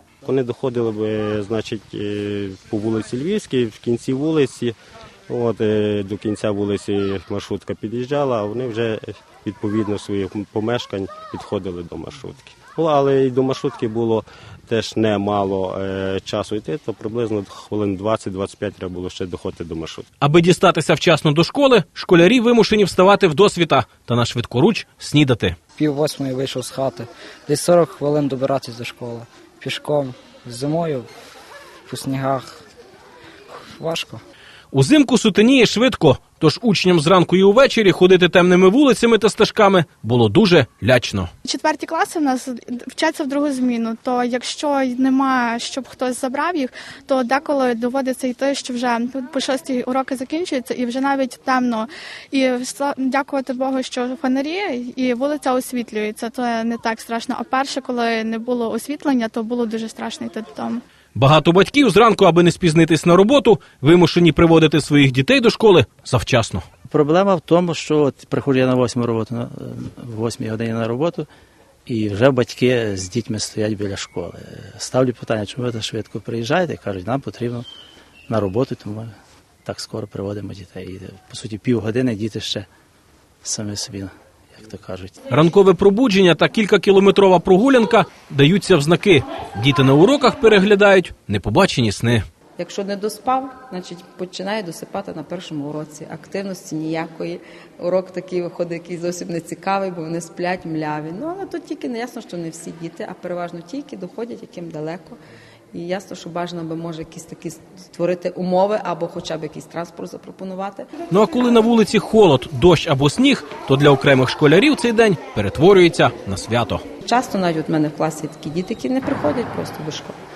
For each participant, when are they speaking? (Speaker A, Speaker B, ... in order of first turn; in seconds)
Speaker A: 0.2-4.8, 5.3-20.1
Speaker B: 20.2-25.6, 34.7-41.3, 61.1-66.6, 85.3-92.2, 111.1-116.8
Speaker C: 25.8-31.1, 31.9-32.6, 33.5-34.2
Speaker D: 41.5-60.8
Speaker E: 66.9-71.3, 71.9-77.7, 78.3-79.1, 79.6-82.7, 83.4-85.1
Speaker F: 92.6-105.2, 105.7-110.9, 117.0-120.2